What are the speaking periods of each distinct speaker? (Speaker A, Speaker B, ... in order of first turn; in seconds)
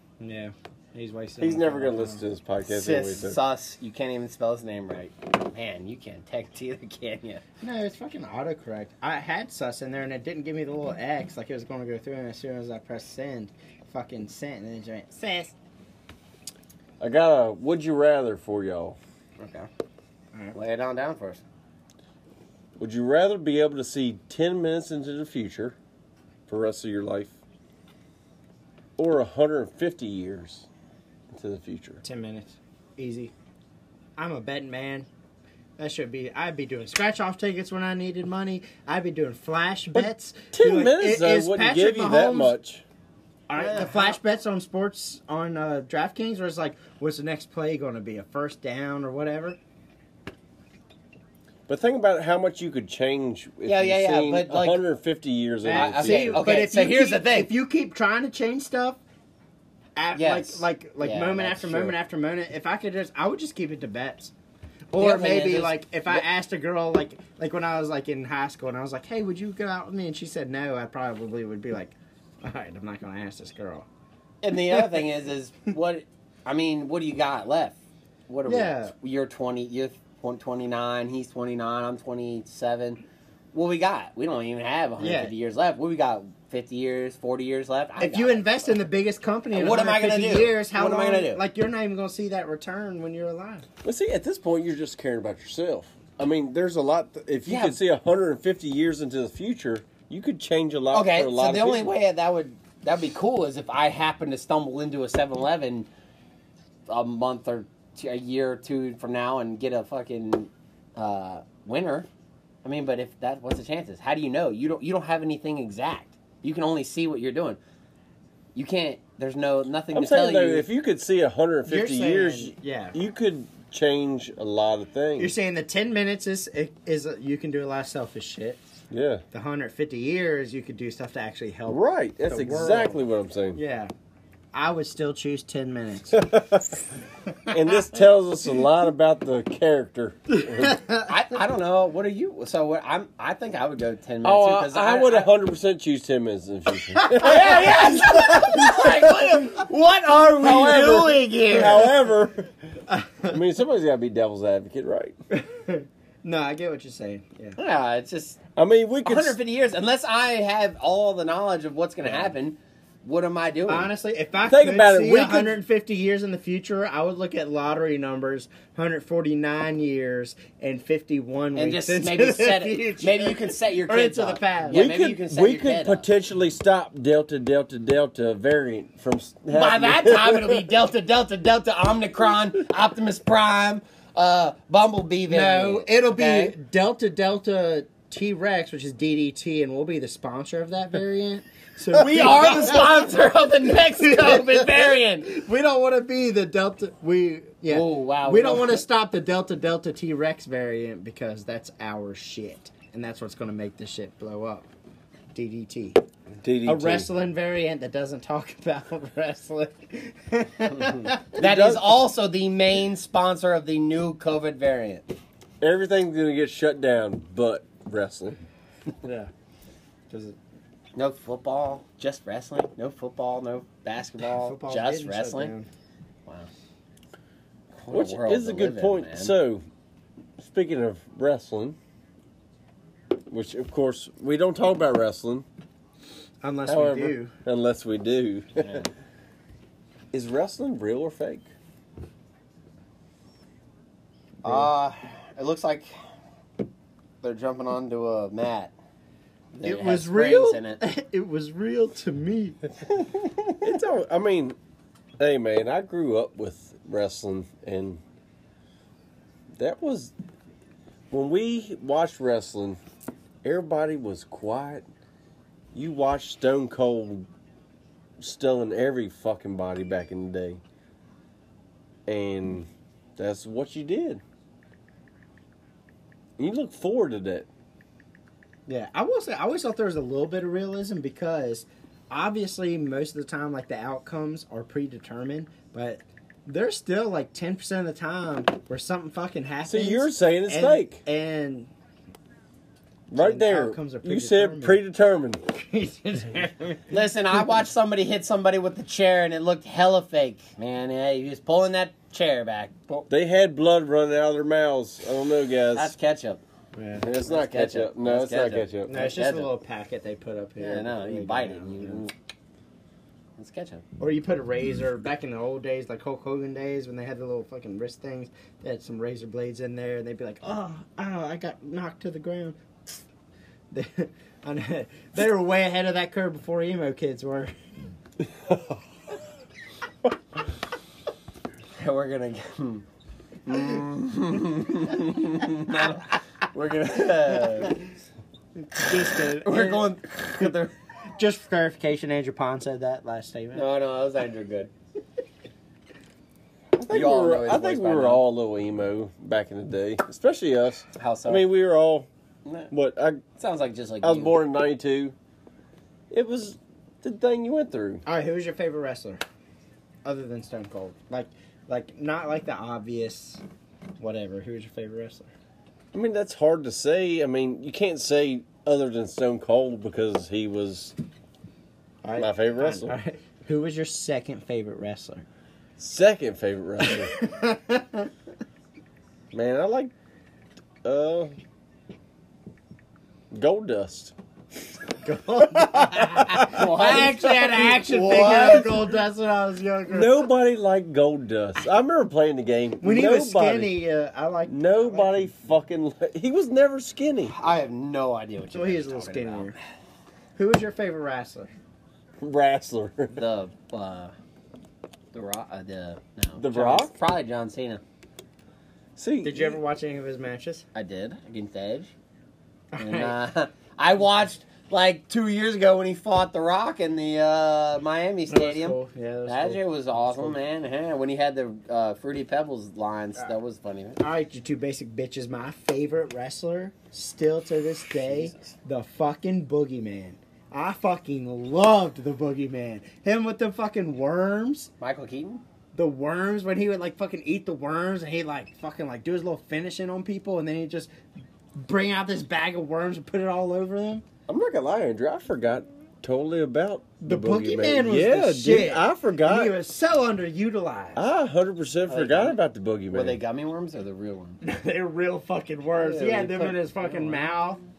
Speaker A: 0.2-2.2, 7.6-15.5, 32.0-33.3, 34.2-35.1, 35.8-42.5, 43.5-49.6, 55.6-59.0, 60.0-64.3, 64.9-73.9, 78.5-78.9, 85.0-85.3, 88.0-93.7, 121.7-123.0, 125.2-128.6, 129.3-133.0, 133.5-133.9, 134.5-136.3, 140.5-141.0, 147.0-147.7, 152.9-153.4, 155.3-157.6, 163.7-174.8, 185.3-204.7, 205.3-206.0, 206.7-211.4, 219.0-219.3, 220.1-220.4, 224.4-225.7, 236.4-237.3, 249.6-252.6, 278.7-291.7, 293.1-294.8, 295.5-297.0, 306.7-307.1, 308.9-312.0, 314.0-322.6, 323.7-327.5, 338.7-339.9, 341.1-343.6, 358.1-359.2, 360.0-363.4, 364.0-365.3, 372.0-375.2, 376.8-378.1, 385.0-390.3, 392.8-395.3, 398.5-399.5, 400.4-401.5, 409.2-410.6, 412.7-413.2, 418.3-420.4, 424.0-434.7, 435.7-440.9, 441.6-444.0, 447.0-451.0, 454.4-457.6
Speaker B: 1.4-3.4, 17.0-19.0, 22.8-25.7, 26.5-27.4, 29.0-30.6, 31.3-32.0, 39.9-42.8, 51.7-56.4, 93.8-101.9, 119.9-125.3, 128.9-129.2, 131.7-133.6, 136.1-136.8, 137.5-140.8, 144.2-149.6, 150.2-152.5, 153.3-155.1, 158.6-159.4, 164.4-165.5, 174.7-180.7, 206.4-207.1, 211.4-212.0, 215.6-218.4, 227.9-229.6, 230.4-231.8, 233.3-235.4, 236.7-238.8, 240.1-241.5, 253.6-254.6, 255.2-258.0, 259.6-260.1, 261.1-262.8, 263.4-264.8, 265.7-267.3, 268.2-270.6, 272.1-274.2, 276.4-277.5, 289.6-291.0, 293.1-295.4, 303.1-305.9, 307.0-309.0, 346.8-352.1, 352.7-353.2, 354.0-355.1, 356.1-358.0, 365.9-370.9, 372.2-372.9, 375.8-377.2, 379.3-379.9, 380.8-381.3, 383.3-384.1, 385.6-388.7, 389.9-393.7, 394.5-397.3, 402.2-403.2, 406.4-406.9, 409.0-409.6, 444.3-449.5, 450.9-453.2
Speaker C: 2.7-7.4, 19.4-19.7, 20.5-21.4, 43.5-44.2, 53.6-54.8, 55.7-57.5, 60.1-61.9, 65.0-66.2, 74.4-83.0, 83.5-88.7, 89.5-91.4, 97.5-97.8, 100.9-105.9, 106.9-112.1, 112.6-117.6, 118.5-120.7, 141.1-145.3, 147.2-151.9, 157.6-158.4, 159.0-163.9, 171.6-176.0, 179.5-186.5, 191.9-195.3, 197.7-198.8, 211.3-215.1, 220.9-225.5, 227.8-229.3, 238.6-238.9, 244.4-245.9, 247.2-248.7, 249.5-250.8, 253.0-253.4, 296.9-303.1, 305.7-306.4, 307.2-309.5, 310.6-312.1, 313.4-313.8, 331.8-332.8, 333.4-337.8, 339.4-340.7, 343.5-344.7, 346.9-348.2, 350.9-351.4, 353.4-354.4, 386.5-388.7, 397.3-399.6, 403.1-404.1, 405.1-407.8, 410.7-411.9, 412.8-424.0, 428.0-428.5, 434.8-435.4, 451.9-452.4, 452.9-454.4, 455.8-457.3